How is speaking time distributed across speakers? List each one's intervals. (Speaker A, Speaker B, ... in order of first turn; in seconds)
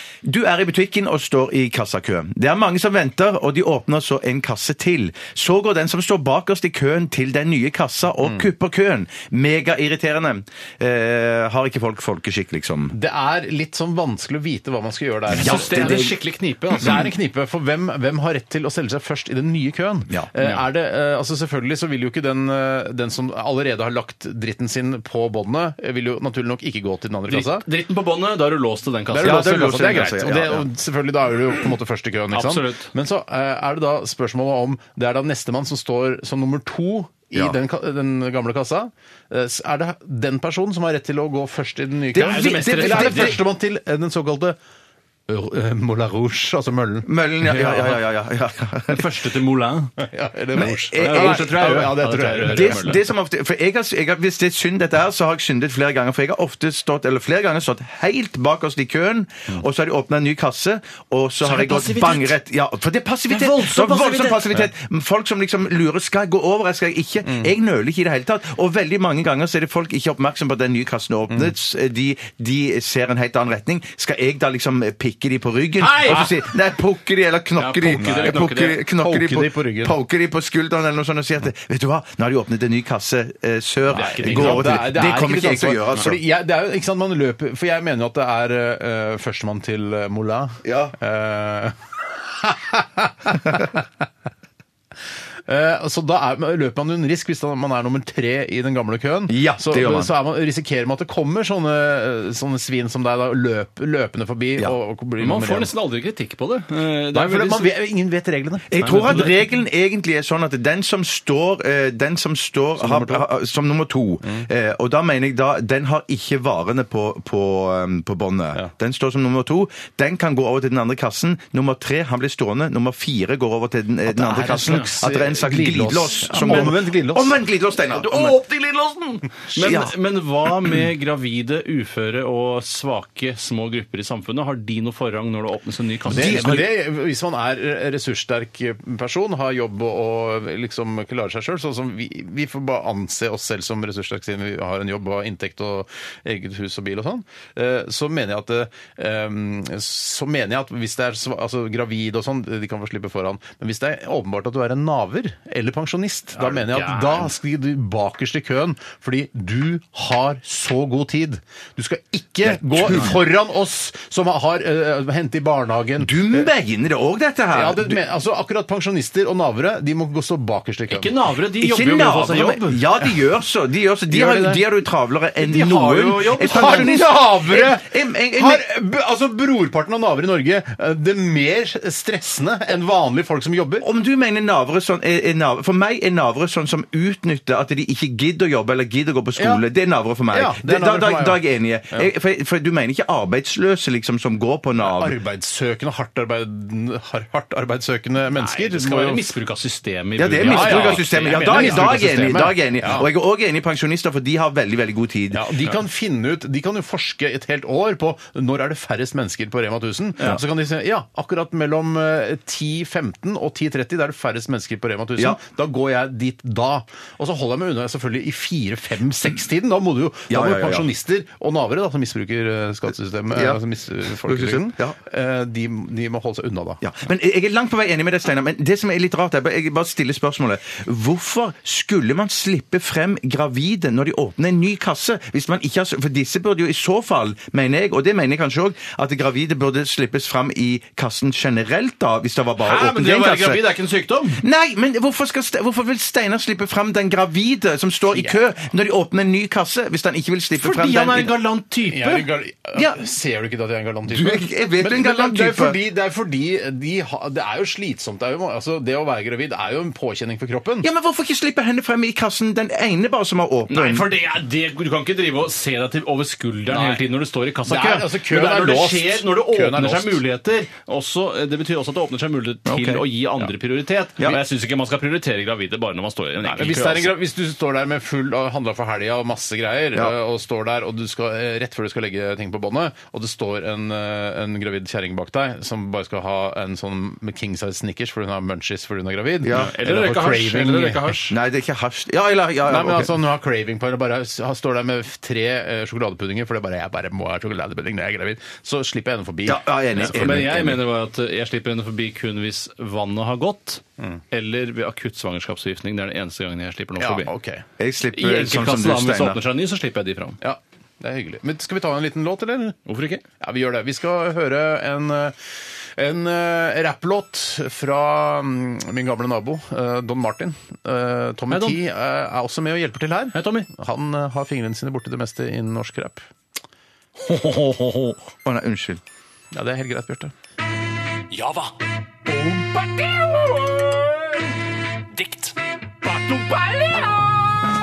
Speaker A: 0.2-12.9, 15.3-16.1, 29.2-30.6, 42.1-43.4, 47.0-49.2, 50.5-51.8, 52.4-86.2, 90.6-90.9, 99.3-100.1, 108.7-128.4, 129.6-129.9, 136.1-136.7, 162.4-163.2, 166.0-168.0, 171.6-178.6, 183.8-195.2, 200.2-205.5, 220.3-220.9, 223.3-223.6, 224.2-224.9, 226.8-243.6, 244.4-251.3, 252.7-253.0, 254.1-255.8, 260.8-264.1, 272.6-273.0, 289.4-289.7, 291.3-293.2, 299.4-300.8, 307.8-309.4, 328.4-329.0
Speaker B: 8.2-8.5, 12.9-16.1, 16.8-27.6, 29.1-44.6, 45.3-47.8, 50.0-53.0, 67.2-67.5, 76.0-76.4, 78.0-80.0, 83.9-91.8, 92.3-93.8, 95.5-105.7, 107.1-109.4, 112.8-113.2, 124.0-127.4, 136.1-166.5, 167.5-171.1, 174.1-174.6, 176.4-183.8, 189.3-189.6, 190.3-192.1, 194.8-199.3, 200.4-203.1, 205.3-226.8, 251.9-260.9, 266.7-267.1, 267.6-270.2, 276.4-291.1, 292.6-300.3, 307.0-307.6, 310.4-312.8, 313.4-326.3, 329.5-330.3
Speaker C: 15.3-17.0, 27.3-30.1, 32.3-32.9, 42.2-43.4, 47.6-48.0, 48.9-49.9, 51.0-53.0, 61.4-62.2, 63.3-64.6, 75.8-76.2, 77.6-78.8, 83.9-84.9, 105.2-107.7, 108.8-109.3, 126.3-126.7, 127.8-136.6, 156.3-157.3, 170.9-172.9, 175.4-177.0, 198.3-202.3, 242.6-244.4, 250.6-252.3, 263.7-277.1, 289.5-291.4, 300.0-307.3, 308.1-310.4, 312.9-313.2, 321.5-321.8, 323.3-323.7, 327.3-328.1, 331.3-331.7
Speaker D: 331.3-331.6, 332.3-334.2, 335.1-337.4